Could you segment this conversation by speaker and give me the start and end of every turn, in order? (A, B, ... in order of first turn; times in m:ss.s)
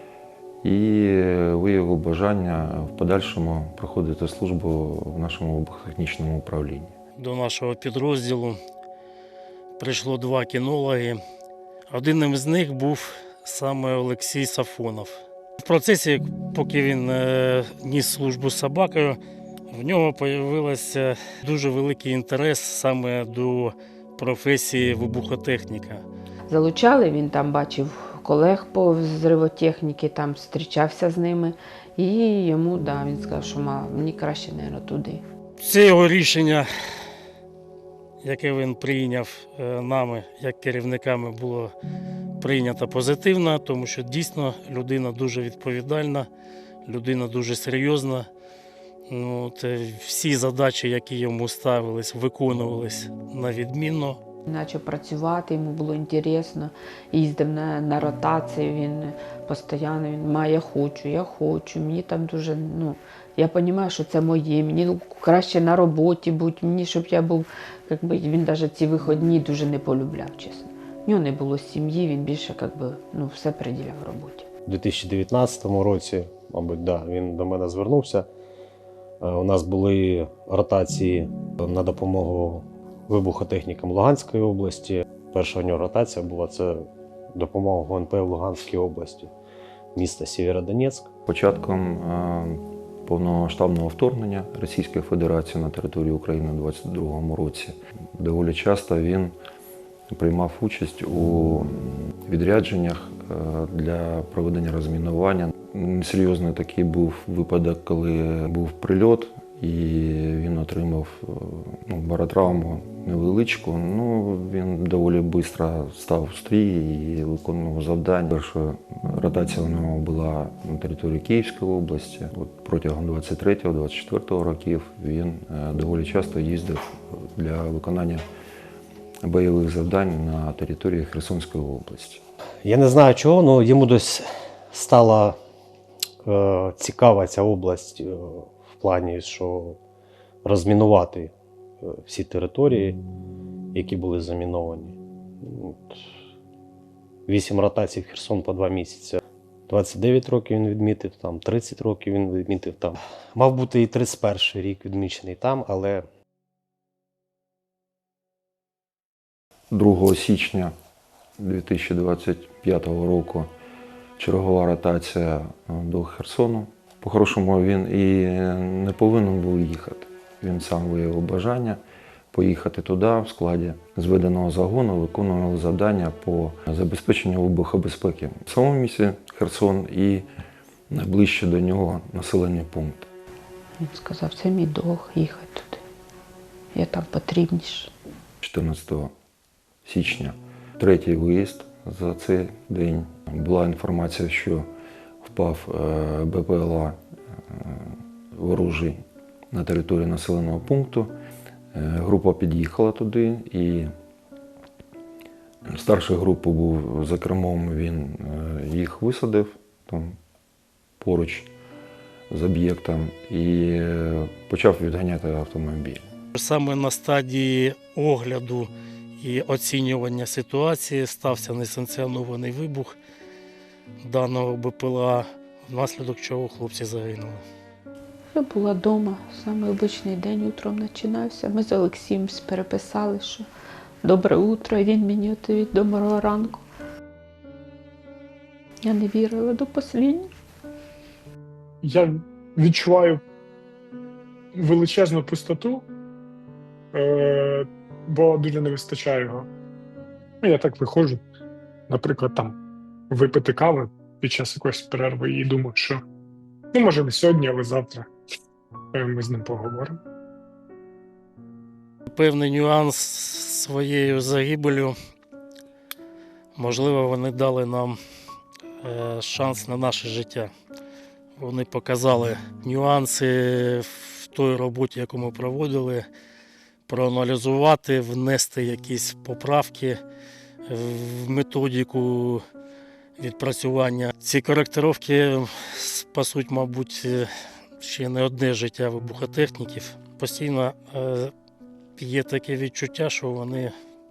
0:00.6-0:06.9 A
0:07.2-0:08.6 B
0:09.8-0:11.2 B
0:11.9-0:19.2 B
0:19.7-0:26.0 B
0:26.5-0:35.2 C
0:35.6-0:36.7 B
0:38.2-0:41.7 B
0:42.4-0:46.3 B
0:46.8-0:48.3 B
0:49.1-0:54.2 B
0:54.5-1:14.5 C
1:14.7-1:18.3 D
1:19.2-1:29.3 D
1:30.0-1:31.1 D
1:31.3-1:39.3 A
1:40.1-2:08.2 A
2:09.2-2:12.2 A
2:12.6-2:15.4 D
2:16.2-2:19.8 D
2:20.4-2:23.0 D
2:23.7-2:26.0 D
2:27.3-2:36.0 D
2:39.7-2:40.7 A
2:41.4-2:43.5 A
2:44.2-2:51.8 A
2:52.3-3:00.2 A
3:00.9-3:03.1 A
3:03.8-3:05.8 C
3:06.7-3:07.9 C
3:08.4-3:09.1 A
3:09.8-3:14.7 A
3:15.2-3:17.0 A
3:17.5-3:19.0 A
3:19.5-3:21.1 A
3:21.7-3:23.9 A
3:25.7-3:30.2 A
3:31.0-3:31.5 A
3:32.3-3:36.1 A
3:36.3-3:43.0 B
3:44.0-3:47.4 B
3:48.3-3:53.5 C
3:54.0-3:56.6 C
3:58.8-4:00.3 C
4:01.8-4:03.2 E
4:04.5-4:05.8 E
4:06.9-4:09.5 E
4:10.4-4:11.2 E
4:11.9-4:12.6 E
4:13.1-4:16.0 E
4:16.7-4:18.1 E
4:18.9-4:20.0 E
4:22.1-4:24.9 B
4:26.6-4:28.0 B
4:28.8-4:30.5 B
4:31.4-4:36.1 B
4:36.9-4:40.0 B
4:40.6-4:42.4 B
4:43.2-4:47.3 B
4:47.8-4:51.3 B
4:52.0-4:53.7 B